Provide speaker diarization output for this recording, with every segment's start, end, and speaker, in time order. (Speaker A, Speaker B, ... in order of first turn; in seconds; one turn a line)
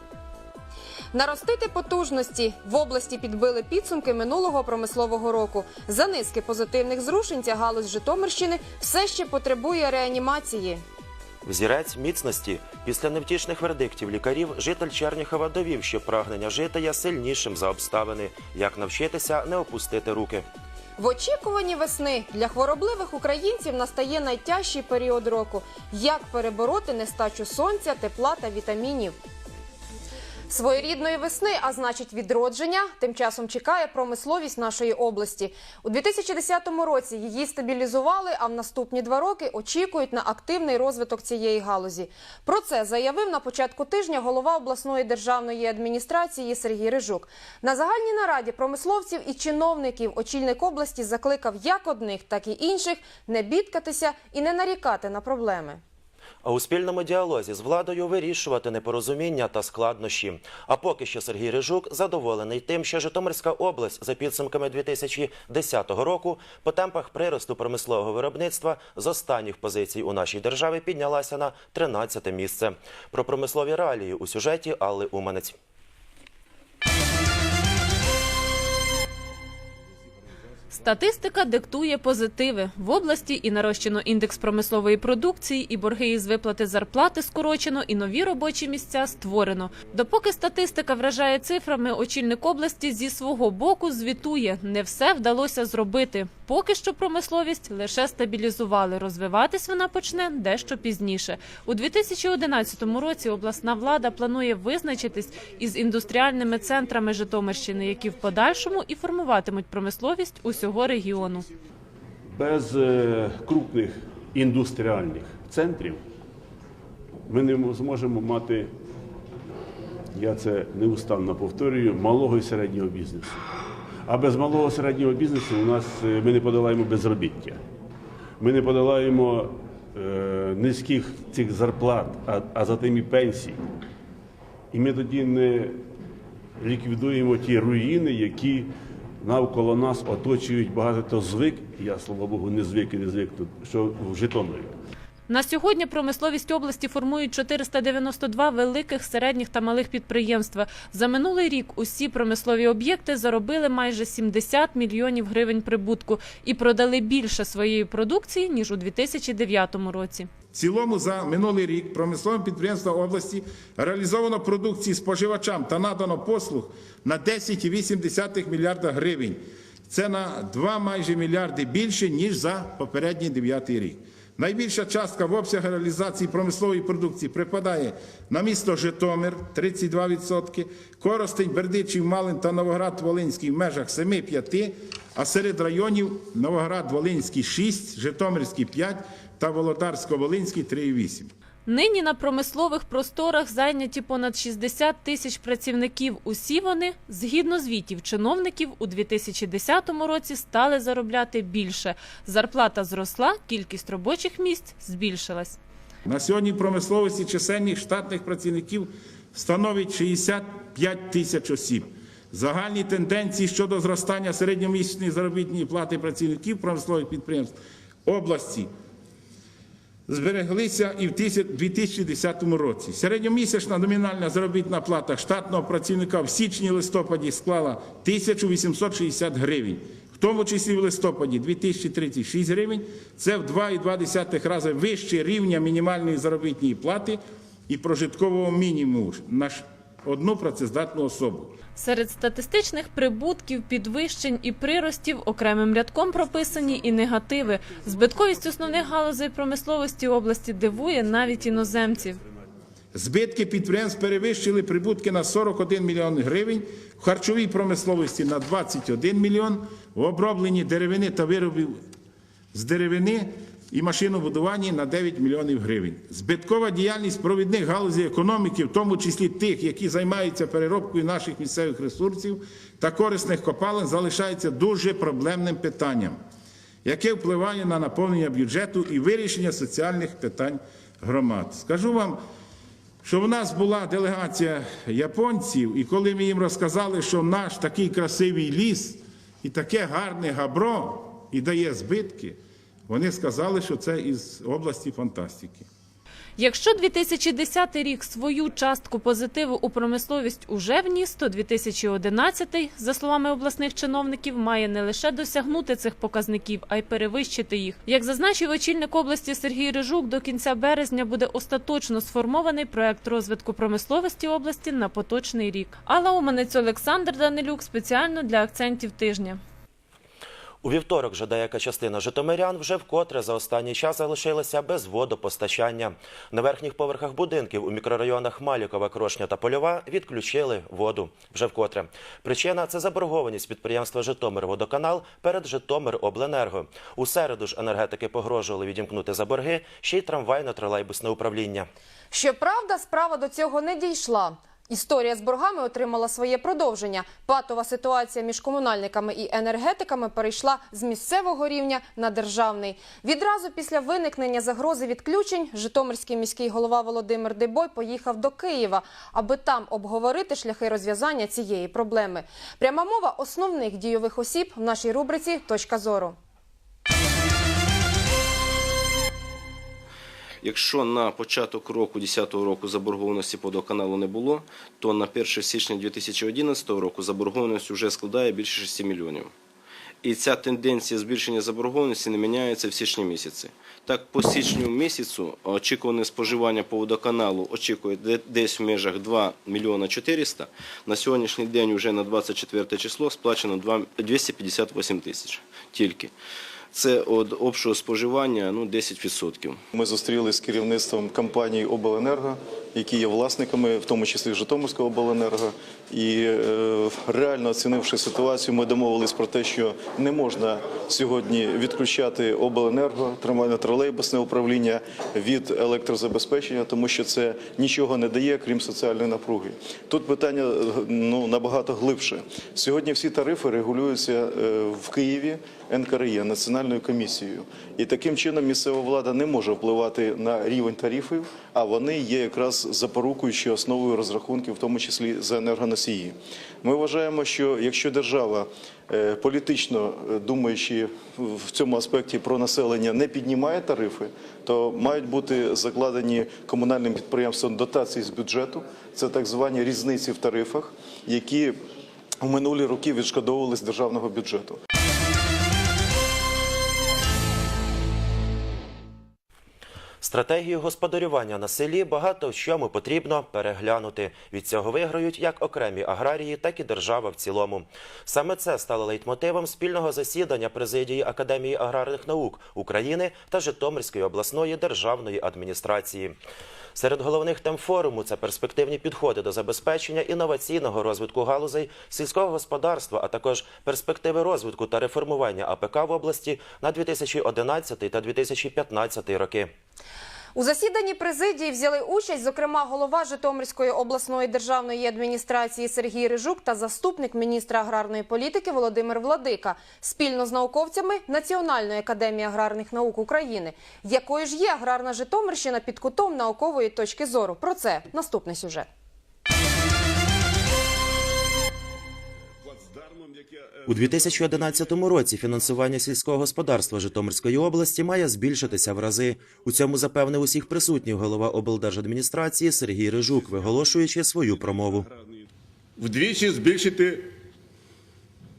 Speaker A: 1.1-10.8
Speaker B: 11.4-20.5
Speaker A: 21.0-29.2
Speaker A: 30.5-55.8
Speaker B: 56.4-75.6
Speaker C: 80.7-111.5
Speaker D: 112.3-116.0
Speaker D: 117.3-118.7
Speaker D: 120.1-123.4
Speaker D: 124.1-127.6
Speaker D: 128.4-133.6
Speaker D: 134.7-135.8
Speaker D: 136.6-144.8
Speaker C: 145.3-160.3
Speaker E: 160.5-191.3
Speaker C: 191.7-205.6
Speaker E: 206.1-218.7
Speaker E: 220.1-241.6
Speaker C: 241.8-252.2
Speaker E: 252.9-261.8
Speaker E: 262.5-276.2
Speaker E: 276.9-282.2
Speaker E: 283.0-292.4
Speaker E: 292.9-295.7
Speaker C: 296.4-319.4
Speaker B: 320.6-341.7
Speaker A: 342.1-366.2
Speaker F: 370.4-379.3
Speaker F: 380.0-396.1
Speaker F: 396.7-399.6
Speaker G: 399.7-451.6
Speaker G: 452.2-454.6
Speaker B: 460.0-476.2
Speaker B: 476.8-489.5
Speaker A: 490.4-508.7
Speaker D: 512.4-514.7
Speaker B: 513.7-524.9
Speaker D: 524.4-525.2
Speaker D: 525.8-527.1